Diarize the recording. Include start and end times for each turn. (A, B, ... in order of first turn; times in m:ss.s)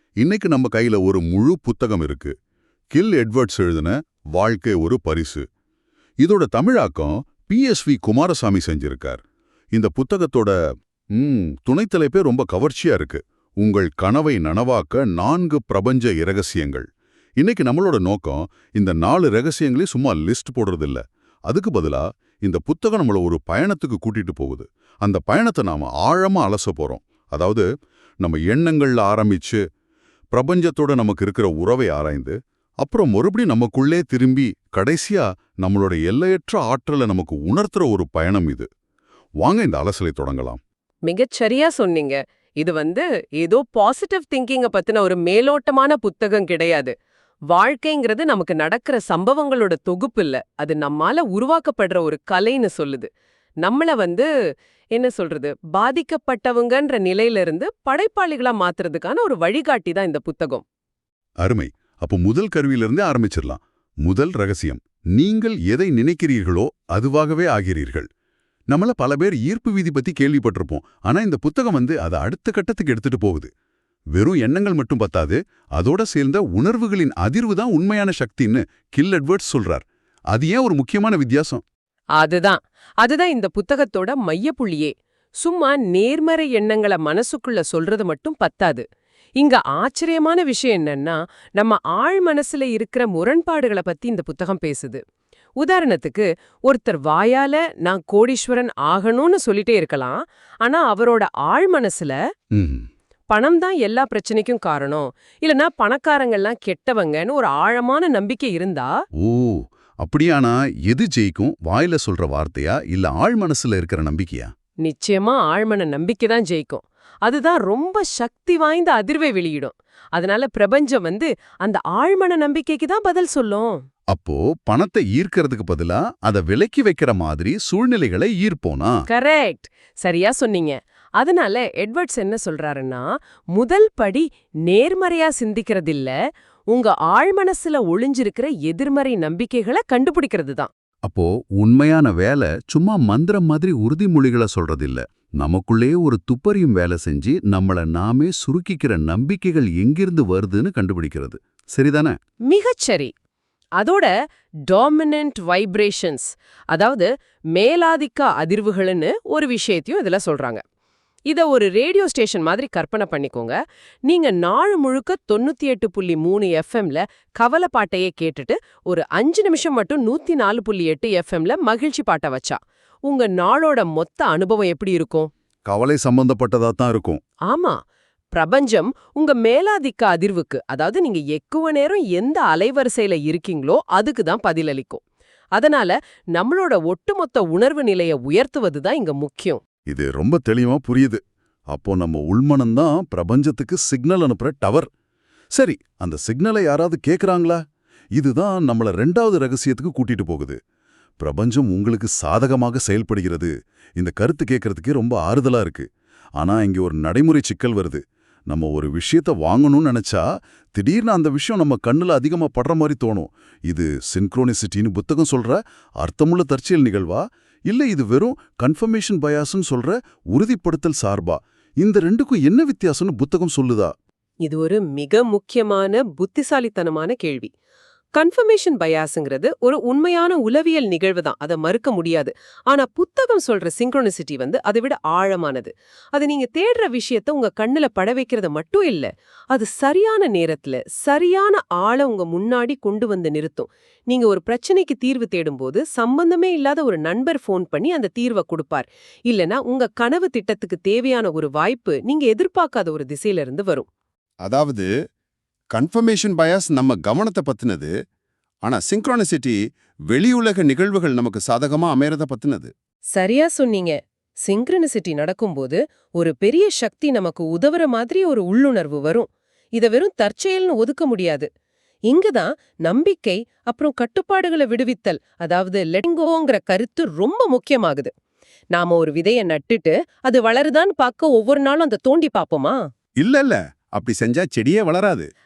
0:00.2-0:02.3 A
0:02.9-0:05.4 A
0:06.2-0:09.2 A
0:09.7-0:10.5 A
0:11.2-0:16.9 A
0:17.4-0:27.6 A
0:28.2-0:29.6 A
0:30.3-0:38.7 A
0:39.4-0:40.6 A
0:41.1-0:46.9 B
0:47.5-0:53.1 B
0:53.6-0:54.3 B
0:55.0-1:00.6 B
1:01.4-1:08.1 A
1:08.7-1:13.5 A
1:14.1-1:21.6 A
1:22.2-1:28.8 B
1:29.4-1:35.0 B
1:35.6-1:42.2 B
1:42.6-1:42.9 A
1:43.3-1:48.9 B
1:49.2-1:54.5 A
1:54.8-2:03.8 B
2:04.1-2:08.9 A
2:09.1-2:16.1 B
2:16.7-2:20.7 B
2:21.1-2:32.2 A
2:32.5-2:33.1 B
2:33.8-2:34.1 B
2:34.7-2:40.6 B
2:41.3-2:55.3 B
2:55.7-2:57.2 A
2:57.5-2:57.8 B
2:58.3-3:05.0 B
3:05.6-3:09.6 B
3:09.9-3:11.2 A
3:11.7-3:14.9 A
3:15.6-3:17.6 A
3:18.2-3:20.6 A
3:21.2-3:25.9 A
3:26.4-3:30.2 A
3:30.7-3:43.9 A
3:44.4-3:47.5 B
3:48.2-4:13.9 B
4:14.4-4:14.9 C
4:15.7-4:17.9 C
4:18.6-4:22.7 C
4:23.1-4:31.5 B
4:32.1-4:38.1 B
4:38.7-4:42.8 B
4:43.2-4:45.3 C